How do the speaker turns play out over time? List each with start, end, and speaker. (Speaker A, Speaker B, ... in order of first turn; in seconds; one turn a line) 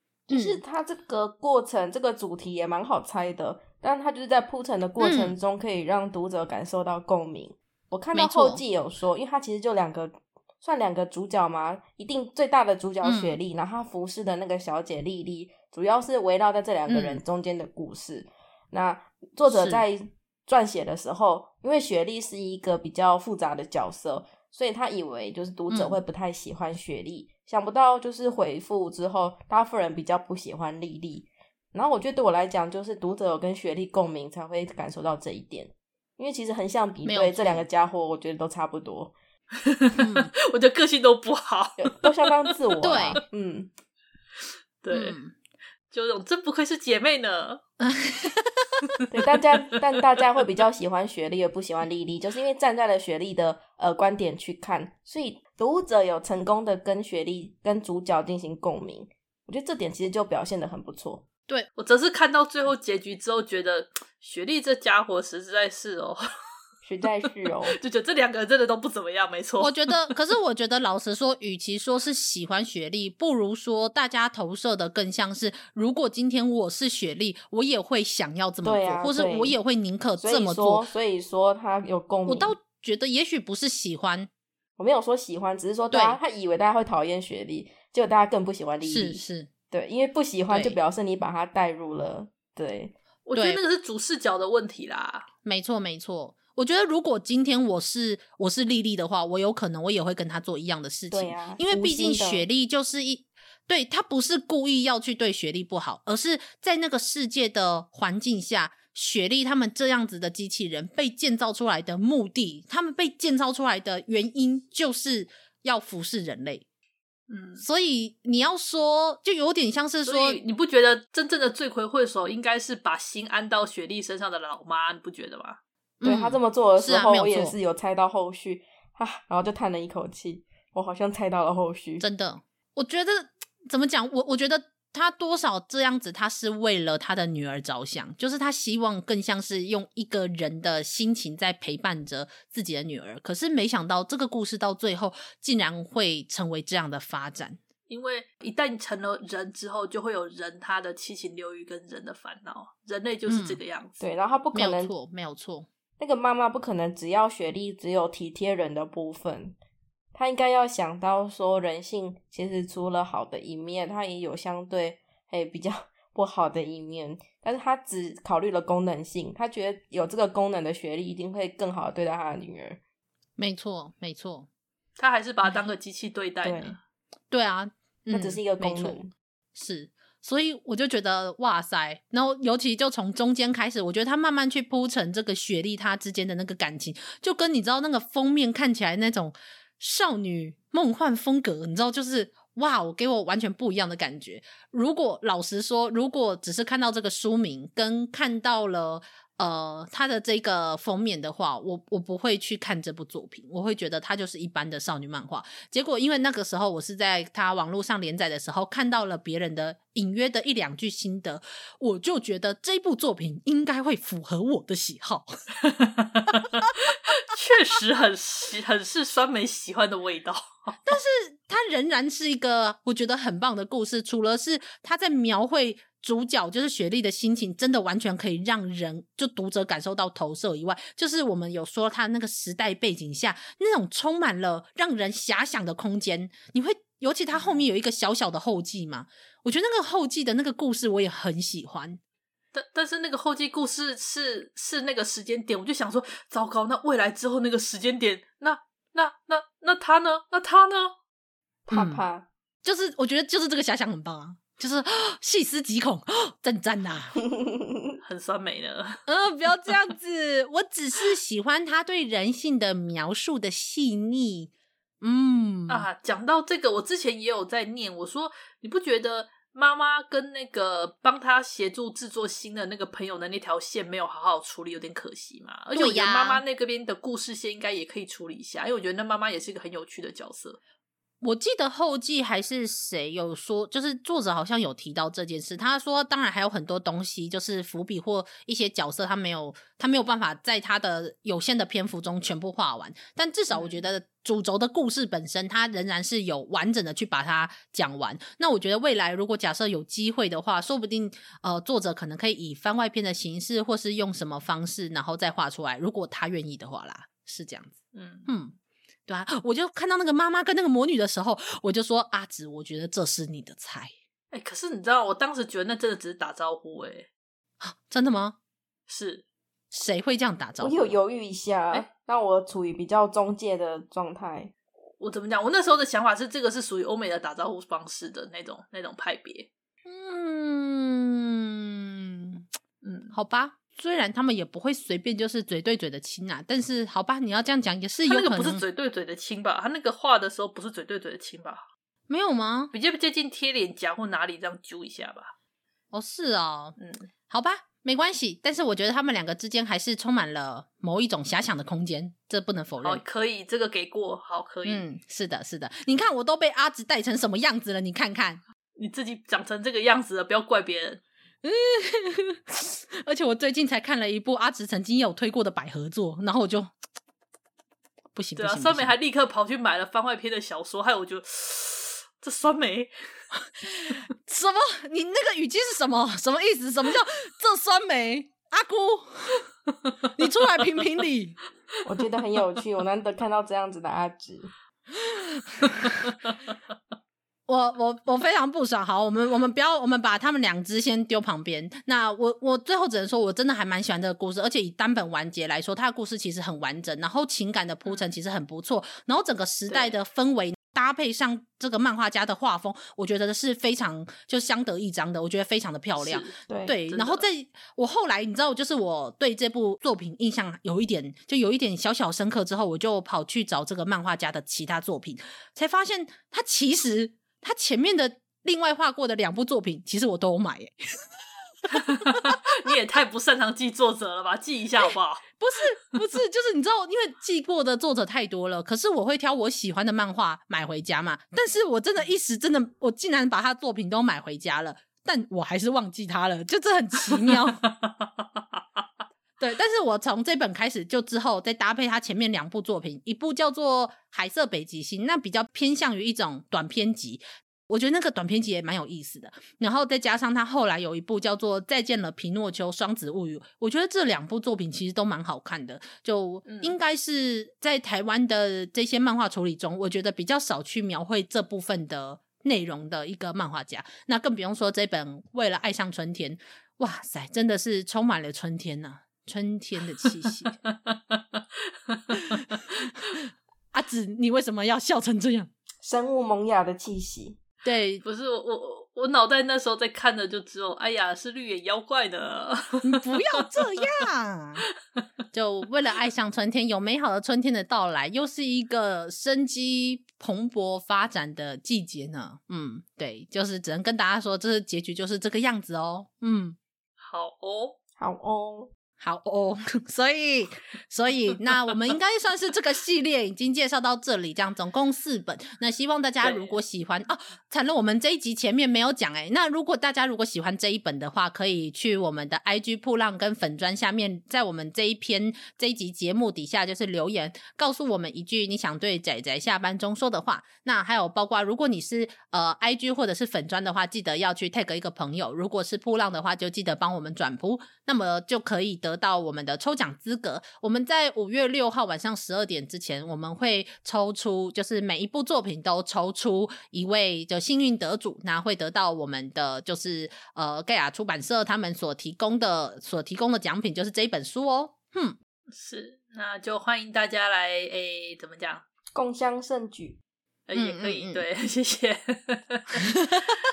Speaker A: 0.3-0.6
Speaker B: 0.3-39.1
Speaker A: 5.0-5.3
Speaker A: 8.1-8.6
Speaker A: 13.0-13.4
Speaker A: 16.9-17.2
Speaker A: 19.5-19.8
Speaker A: 25.7-26.0
Speaker A: 37.0-37.6
Speaker C: 39.6-42.0
Speaker A: 40.0-40.3
Speaker B: 41.8-43.7
Speaker A: 42.8-43.2
Speaker C: 44.4-45.2
Speaker A: 44.9-45.3
Speaker C: 45.9-47.6
Speaker A: 47.8-48.6
Speaker B: 49.1-61.2
Speaker C: 61.8-66.2
Speaker B: 66.8-67.8
Speaker C: 67.7-70.1
Speaker A: 69.6-80.9
Speaker B: 78.6-79.5
Speaker B: 80.2-82.5
Speaker A: 82.2-84.3
Speaker B: 84.8-92.9
Speaker A: 85.9-86.2
Speaker A: 88.8-89.5
Speaker A: 90.5-90.8
Speaker C: 93.2-95.3
Speaker A: 93.3-93.6
Speaker A: 95.4-116.6
Speaker B: 101.1-102.5
Speaker C: 117.3-117.6
Speaker A: 117.6-120.4
Speaker C: 120.0-125.6
Speaker A: 126.0-127.5
Speaker B: 126.0-132.0
Speaker A: 132.0-147.6
Speaker C: 147.9-154.0
Speaker A: 153.3-153.6
Speaker B: 154.0-154.9
Speaker A: 154.5-155.7
Speaker B: 156.0-159.6
Speaker B: 160.1-172.8
Speaker A: 173.4-174.5
Speaker C: 175.0-176.8
Speaker B: 176.4-176.8
Speaker A: 177.3-179.0
Speaker B: 178.1-179.1
Speaker A: 179.5-215.3
Speaker C: 215.6-220.9
Speaker A: 220.8-242.0
Speaker C: 237.3-237.6
Speaker C: 242.5-250.9
Speaker B: 251.7-252.3
Speaker A: 251.7-252.0
Speaker A: 252.6-257.1
Speaker C: 258.0-259.0
Speaker A: 259.1-265.9
Speaker C: 265.7-280.6
Speaker A: 275.7-276.4
Speaker A: 281.2-307.8
Speaker C: 293.5-293.8
Speaker C: 307.9-308.3
Speaker A: 308.3-313.9
Speaker C: 314.3-317.1
Speaker A: 317.6-318.4
Speaker C: 318.9-319.2
Speaker A: 319.7-321.0
Speaker B: 320.6-324.5
Speaker C: 325.0-329.5
Speaker A: 329.9-332.4
Speaker C: 332.8-333.1
Speaker A: 333.1-338.6
Speaker C: 338.0-341.6
Speaker A: 342.1-342.7
Speaker C: 342.7-345.3
Speaker A: 345.9-346.8
Speaker C: 346.8-347.1
Speaker A: 347.3-353.0
Speaker C: 352.8-354.9
Speaker A: 354.6-358.4
Speaker C: 358.8-361.0
Speaker A: 361.4-366.7
Speaker A: 368.1-368.9
Speaker C: 368.4-372.9
Speaker A: 373.6-379.5
Speaker A: 380.0-381.4
Speaker B: 381.8-384.5
Speaker A: 385.0-386.1
Speaker A: 387.5-420.7
Speaker C: 399.7-399.9
Speaker C: 406.0-407.2
Speaker B: 406.5-406.7
Speaker C: 421.7-425.3
Speaker A: 425.4-437.6
Speaker C: 437.1-438.8
Speaker A: 439.4-470.5
Speaker C: 456.4-456.8
Speaker C: 470.7-472.6
Speaker A: 472.1-473.1
Speaker A: 473.7-475.5
Speaker B: 475.8-477.4
Speaker A: 477.6-478.0
Speaker C: 478.0-483.8
Speaker A: 482.8-484.6
Speaker A: 485.3-496.6
Speaker C: 497.0-497.8
Speaker B: 498.0-498.7
Speaker A: 499.0-545.1
Speaker C: 506.2-506.6
Speaker C: 545.5-548.6
Speaker B: 548.9-550.0
Speaker C: 550.5-553.0
Speaker A: 550.5-551.2
Speaker A: 552.8-553.4